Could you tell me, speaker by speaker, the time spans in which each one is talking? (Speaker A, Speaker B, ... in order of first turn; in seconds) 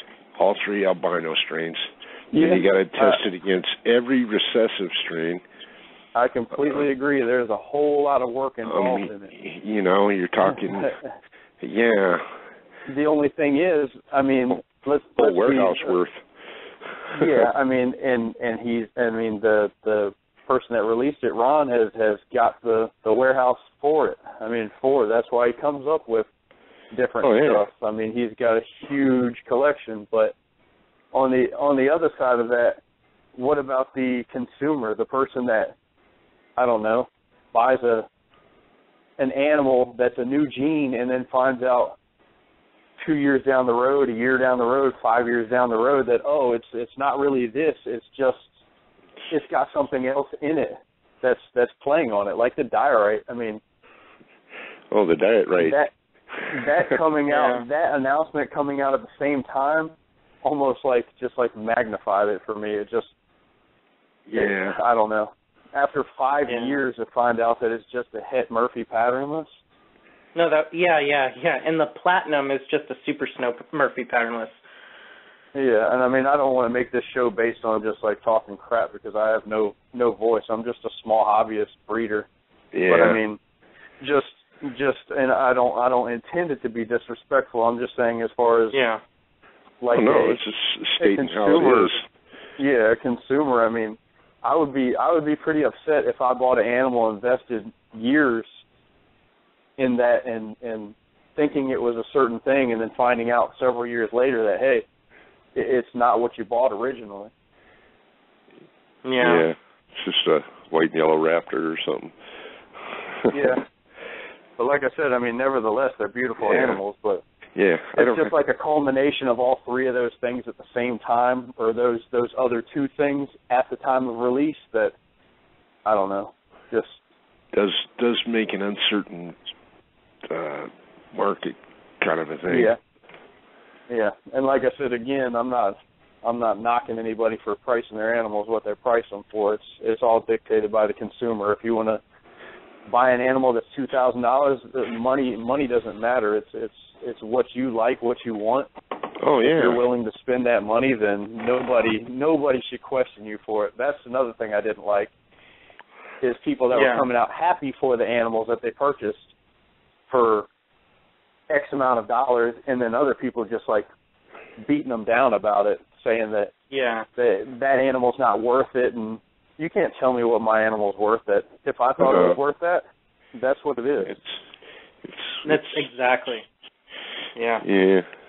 Speaker A: 0.3-5.4, 8.6-10.9, 11.6-12.4, 15.2-16.2, 17.0-17.5, 27.2-27.6, 54.9-55.8, 56.3-56.9, 64.3-64.8, 82.7-83.2, 89.9-92.0, 109.2-112.1, 112.8-113.5, 116.4-116.8, 117.5-118.3, 127.5-129.4, 130.2-132.7, 149.2-149.8, 172.0-172.4, 174.0-174.4, 175.0-175.9, 177.6-178.1
Speaker B: 2.3-3.2, 6.1-9.3, 12.9-15.9, 17.1-26.3, 26.9-30.3, 31.1-32.8, 33.3-35.7, 36.6-38.1, 39.2-42.0, 43.0-48.5, 49.3-53.6, 55.6-55.9, 56.5-63.1, 64.3-69.5, 75.5-82.3, 82.9-83.4, 84.0-88.8, 89.8-90.4, 91.0-92.0, 92.6-98.5, 99.8-104.8, 105.5-107.3, 113.3-113.6, 114.6-117.2, 117.9-124.9, 125.8-127.0, 132.5-132.8, 133.9-142.0, 142.9-148.7, 149.5-155.1, 156.2-159.3, 160.1-160.5, 161.5-163.9, 164.6-166.5, 167.2-174.1
Speaker C: 57.3-57.6, 66.5-66.8, 70.3-74.5, 88.7-89.0, 109.0-109.5, 156.7-157.1, 166.7-167.1, 175.4-176.4, 177.3-177.7